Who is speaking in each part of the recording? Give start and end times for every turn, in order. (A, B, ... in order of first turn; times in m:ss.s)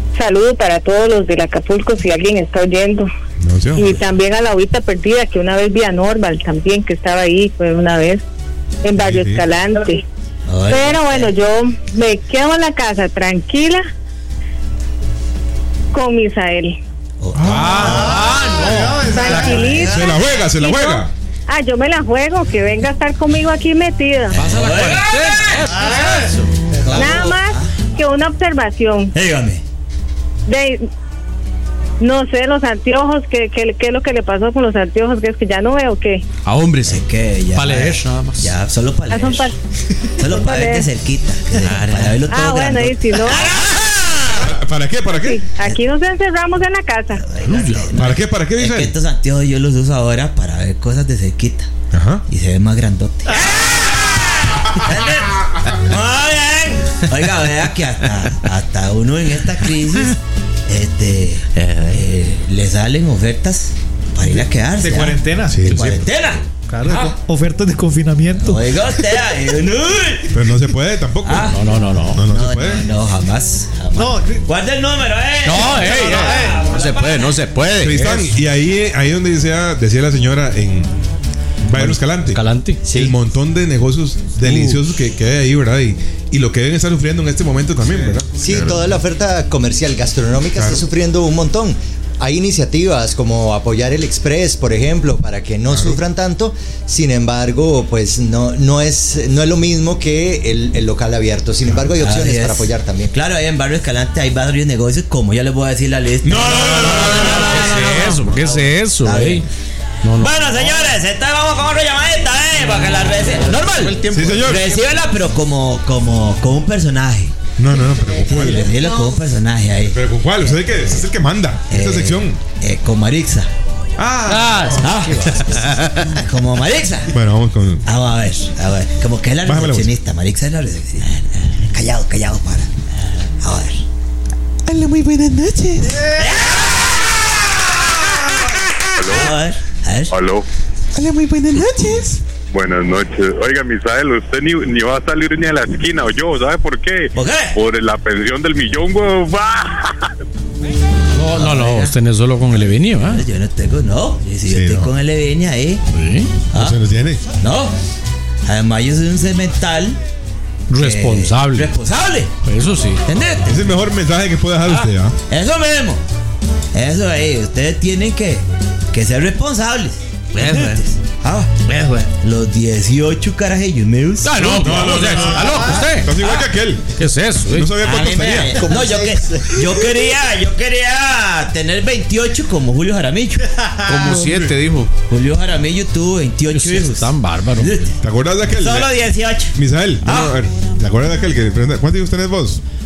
0:00.2-0:03.0 A
0:03.4-0:04.0 B
0:03.8-0:08.2 A
0:08.8-0:10.0 A
0:09.0-0:09.4 B
0:10.5-0:11.3 C
0:10.7-0:13.8 A
0:15.9-0:16.7 A
0:17.2-0:17.9 C
0:17.4-0:18.1 B
0:17.4-0:19.2 D
0:17.8-0:19.7 E
0:19.0-0:24.5 A
0:19.4-0:20.2 C
0:19.8-0:21.1 B
0:24.3-0:25.6 C
0:24.3-0:26.5 D
0:25.8-0:26.1 E
0:26.8-0:27.7 C
0:26.9-0:29.1 A
0:29.1-0:29.6 C
0:30.5-0:30.8 A
0:32.0-0:36.2 A
0:36.5-0:37.0 F
0:36.5-0:36.9 D
0:36.9-0:39.5 C
0:37.5-0:38.5 D
0:39.1-0:39.5 A
0:40.2-0:44.5 C
0:40.2-0:40.9 A
0:41.6-0:42.2 F
0:42.3-0:43.5 A
0:44.4-0:45.4 B
0:45.1-0:47.2 A
0:47.2-0:51.7 C
0:47.4-0:47.9 D
0:47.9-0:48.9 B
0:51.9-0:52.2 B
0:52.3-1:00.2 C
1:00.7-1:07.1 C
1:01.6-1:02.0 F
1:04.8-1:05.6 E
1:05.5-1:06.0 B
1:06.7-1:08.7 E
1:08.4-1:10.3 C
1:10.3-1:11.5 B
1:11.2-1:11.6 C
1:11.5-1:12.2 D
1:12.1-1:12.8 B
1:12.2-1:17.4 C
1:13.9-1:14.4 E
1:15.4-1:16.4 D
1:15.7-1:16.6 E
1:16.6-1:18.2 F
1:17.8-1:20.9 B
1:17.9-1:18.3 D
1:21.7-1:28.4 B
1:21.7-1:22.8 D
1:22.8-1:23.2 G
1:24.5-1:24.8 F
1:28.3-1:43.1 G
1:30.6-1:30.8 B
1:35.7-1:36.0 B
1:42.0-1:47.8 C
1:46.2-1:48.4 B
1:46.6-1:49.4 D
1:49.0-1:49.4 C
1:50.0-1:50.3 D
1:50.2-1:57.3 C
1:53.8-1:54.1 D
1:54.0-1:54.4 F
1:54.1-1:54.7 B
1:57.6-1:58.8 B
1:58.3-2:00.6 C
1:59.9-2:02.4 B
2:01.7-2:03.5 C
2:04.0-2:05.0 B
2:04.2-2:05.8 D
2:04.8-2:07.1 C
2:07.1-2:07.8 B
2:07.8-2:12.7 C
2:09.4-2:09.9 B
2:13.4-2:13.8 C
2:14.7-2:16.2 B
2:16.1-2:17.1 C
2:19.1-2:20.1 C
2:20.9-2:22.2 B
2:22.5-2:30.0 H
2:27.1-2:27.6 C
2:31.1-2:33.2 D
2:31.3-2:31.9 C
2:32.9-2:35.8 C
2:34.4-2:34.9 B
2:35.9-2:36.3 D
2:36.5-2:36.8 C
2:36.5-2:37.2 B
2:37.4-2:37.7 C
2:38.4-2:40.0 C
2:40.7-2:41.7 D
2:40.8-2:42.3 C
2:42.4-2:43.0 D
2:43.0-2:43.6 C
2:43.5-2:45.1 B
2:44.6-2:46.0 C
2:46.7-2:51.5 C
2:50.3-2:50.8 F
2:51.7-2:52.0 F
2:52.2-2:54.3 C
2:54.2-2:56.1 D
2:54.4-2:56.9 B
2:56.2-2:56.4 C
2:56.9-2:57.7 D
2:57.4-2:58.6 B
2:57.8-3:03.4 C
2:58.6-3:00.0 G
3:03.8-3:04.9 F
3:04.2-3:04.5 B
3:05.1-3:07.9 C
3:06.5-3:07.7 D
3:08.0-3:08.9 B
3:08.5-3:10.3 C
3:09.5-3:12.6 B